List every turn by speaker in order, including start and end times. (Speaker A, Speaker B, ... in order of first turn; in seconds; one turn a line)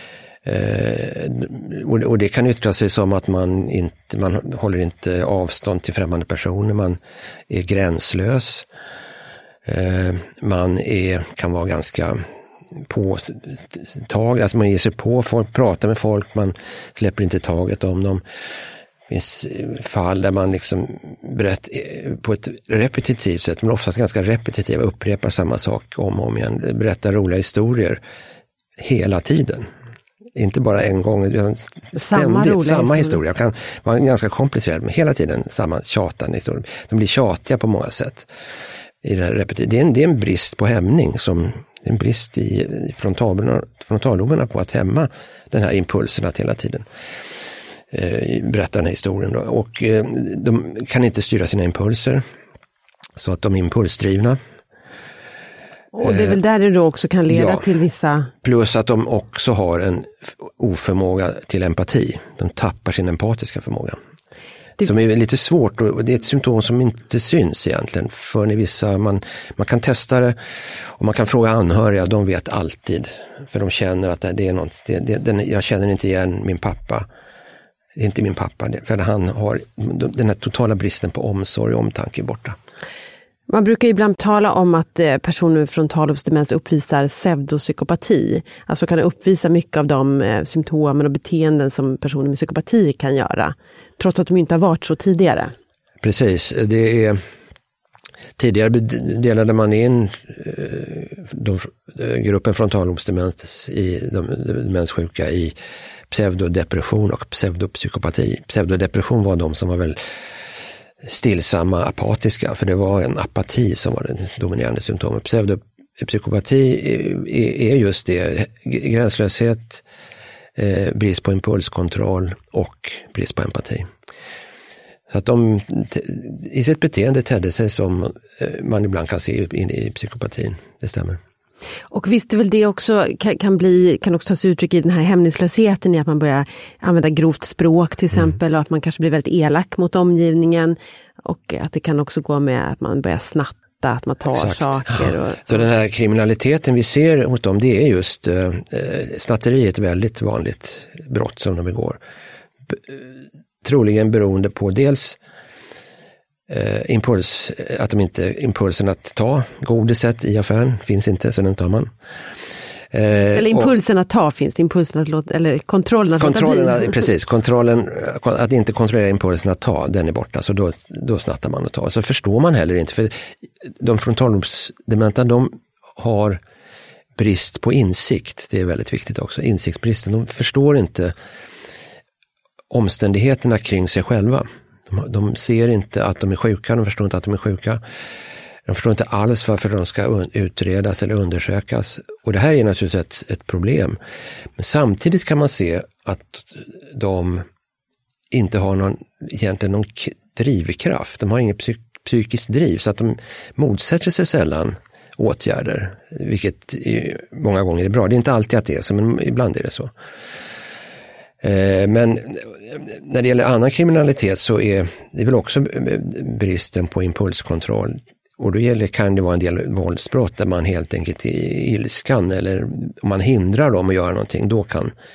Speaker A: 0.4-8.7
Speaker A: 9.7-12.2
Speaker A: 12.7-18.2
Speaker A: 19.1-28.0
Speaker A: 28.8-29.7
Speaker A: 30.3-38.3
Speaker B: 31.9-33.2
Speaker A: 39.0-46.9
Speaker A: 47.9-52.2
Speaker A: 53.2-54.4
Speaker B: 55.9-58.3
Speaker A: 56.0-56.4
Speaker A: 57.3-57.7
Speaker A: 58.4-64.0
Speaker A: 64.8-70.3
Speaker A: 70.9-77.1
Speaker A: 78.0-82.6
Speaker B: 83.5-95.5
Speaker A: 96.0-97.2
Speaker A: 98.4-105.5
Speaker A: 106.1-110.0
Speaker A: 111.0-119.8
Speaker A: 120.5-123.9
Speaker A: 125.1-131.2
Speaker B: 131.9-145.6
Speaker A: 144.3-152.0
Speaker A: 152.7-155.2
Speaker A: 156.5-161.9
Speaker A: 162.9-163.7
Speaker B: 163.3-166.9
Speaker A: 166.2-176.4
Speaker A: 177.2-181.1
Speaker A: 182.7-187.8
Speaker A: 188.7-194.0
Speaker A: 194.6-197.4
Speaker A: 198.3-209.9
Speaker A: 211.4-224.9